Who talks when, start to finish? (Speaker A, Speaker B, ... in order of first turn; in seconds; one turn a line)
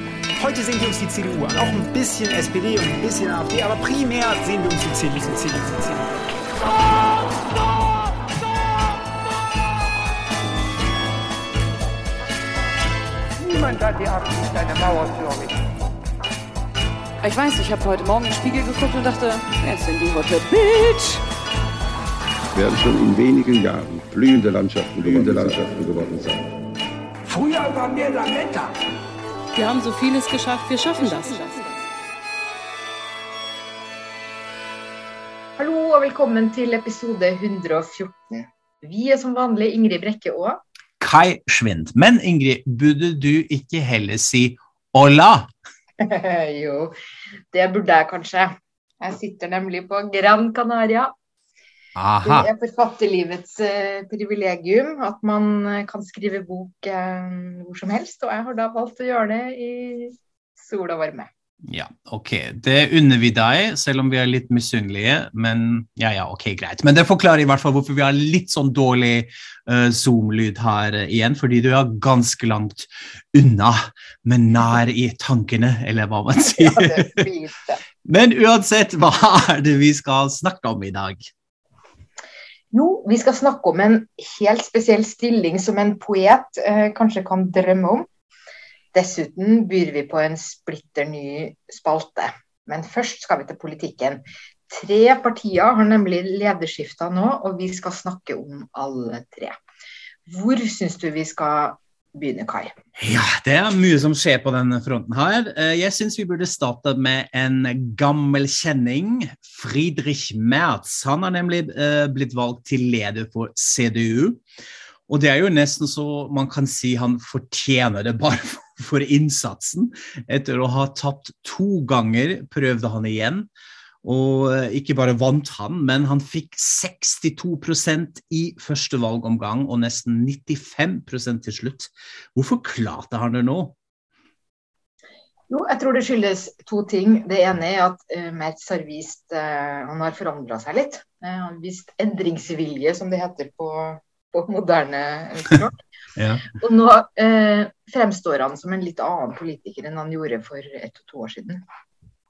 Speaker A: 0.4-6.5
Speaker B: 6.9-9.0
Speaker B: 13.4-15.6
Speaker C: 22.6-26.5
Speaker B: 27.3-28.7
Speaker D: 29.6-31.6
Speaker E: 35.6-40.6
Speaker F: 41.0-45.5
Speaker E: 46.0-46.9
Speaker E: 47.5-51.1
Speaker F: 52.0-52.5
Speaker E: 52.2-61.3
Speaker F: 61.7-77.3
Speaker E: 76.4-77.8
Speaker F: 78.0-81.3
Speaker E: 82.7-88.1
Speaker E: 88.9-99.6
Speaker E: 100.3-102.7
Speaker F: 103.0-114.4
Speaker F: 115.1-123.5
Speaker F: 124.0-133.8
Speaker E: 135.5-145.8
Speaker F: 146.2-146.5
Speaker E: 146.5-151.6